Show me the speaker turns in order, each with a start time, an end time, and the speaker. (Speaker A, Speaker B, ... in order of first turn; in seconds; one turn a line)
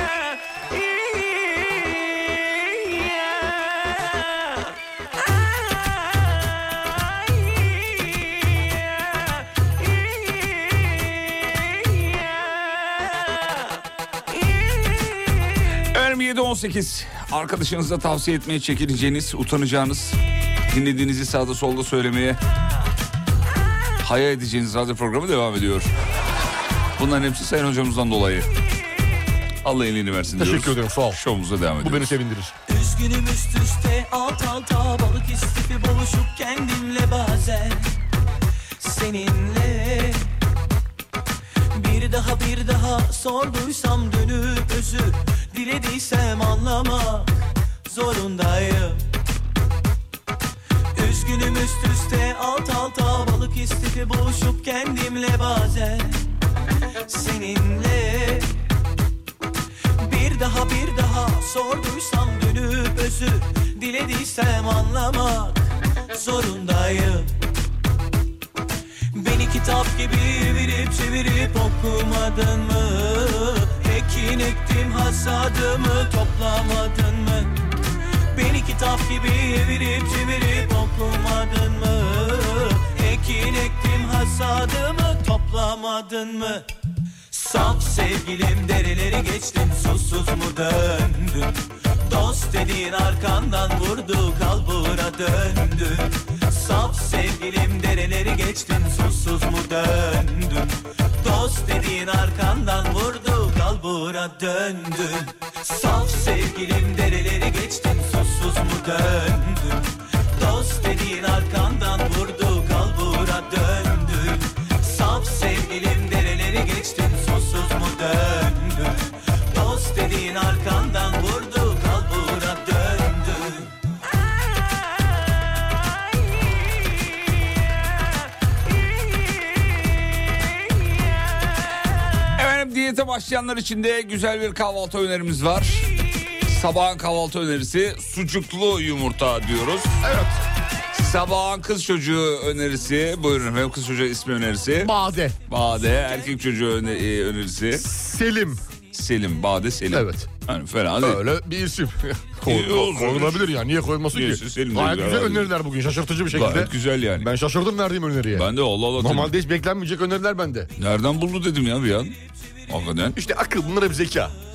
Speaker A: 15.9-20.2
Speaker A: 20.7-22.4
Speaker A: 24.0-25.9
Speaker A: 27.0-28.5
Speaker A: 29.6-32.1
Speaker B: 30.4-31.2
Speaker B: 31.8-32.5
Speaker C: 32.7-37.9
Speaker C: 38.8-40.3
Speaker C: 41.7-49.0
Speaker C: 50.9-56.3
Speaker C: 57.1-58.6
Speaker C: 60.0-67.3
Speaker C: 69.1-77.5
Speaker C: 78.3-86.7
Speaker C: 87.3-123.7
Speaker A: 132.3-135.9
Speaker A: 136.4-139.9
Speaker B: 140.0-140.4
Speaker A: 140.9-144.9
Speaker B: 144.8-145.4
Speaker A: 145.5-147.8
Speaker B: 147.7-148.6
Speaker A: 148.9-151.3
Speaker B: 149.9-150.3
Speaker B: 151.0-160.7
Speaker A: 152.4-153.6
Speaker A: 154.1-155.5
Speaker A: 156.3-157.3
Speaker A: 158.3-159.3
Speaker A: 160.8-162.2
Speaker A: 162.7-163.2
Speaker B: 163.2-164.3